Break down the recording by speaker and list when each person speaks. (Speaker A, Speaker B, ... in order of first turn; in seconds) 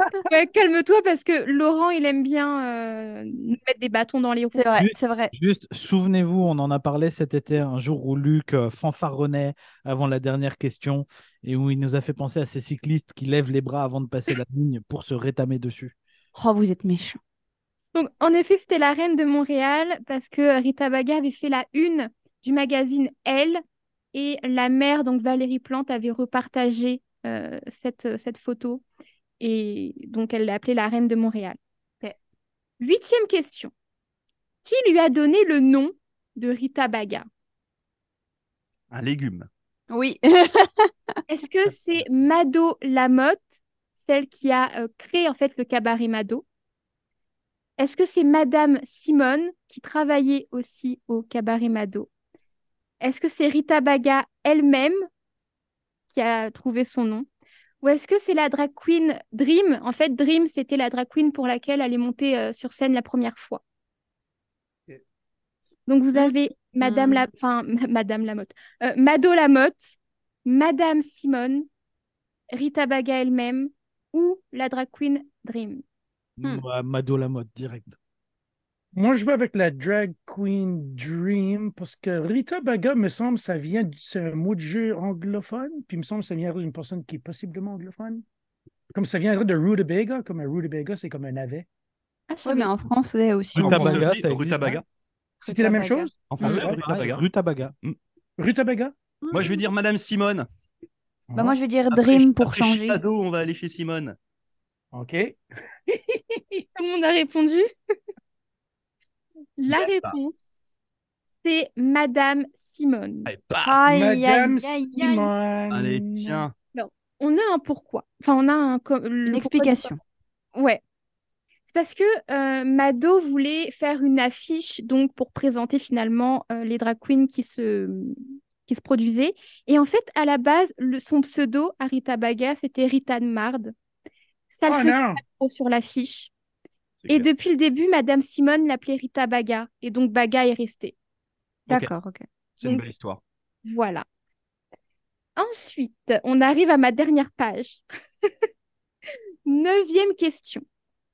Speaker A: 0.2-4.7, 17.9-23.6, 24.1-28.8, 29.4-31.6, 32.8-33.7, 34.6-37.3, 41.3-46.4, 47.8-52.1, 53.0-55.0, 56.1-57.3, 57.8-63.6, 65.9-71.7, 72.5-75.8, 92.3-92.7, 106.7-107.7, 109.6-110.5, 111.4-113.3, 116.7-119.9, 120.5-120.8, 121.7-133.7, 134.5-136.3, 137.1-140.9, 142.6-142.9, 143.6-144.0, 145.4-147.8, 149.4-150.6
Speaker B: 4.5-5.3, 16.3-17.2, 39.9-40.9, 66.1-67.3, 92.4-94.1, 95.4-96.1, 101.3-103.0, 113.6-115.3, 119.2-120.0, 141.7-142.2
Speaker C: 4.8-15.9, 76.4-78.0, 93.5-94.8, 96.4-97.7
Speaker D: 38.9-39.5, 93.5-94.8, 96.3-97.2, 99.3-100.5, 101.9-104.2, 109.7-110.2, 113.2-113.8, 115.7-116.5, 137.0-137.3, 141.7-141.9, 142.6-143.2
Speaker E: 78.9-88.2, 88.9-91.7, 95.4-96.8, 98.4-98.9, 101.3-101.6, 104.9-106.6, 113.9-116.4, 134.7-135.2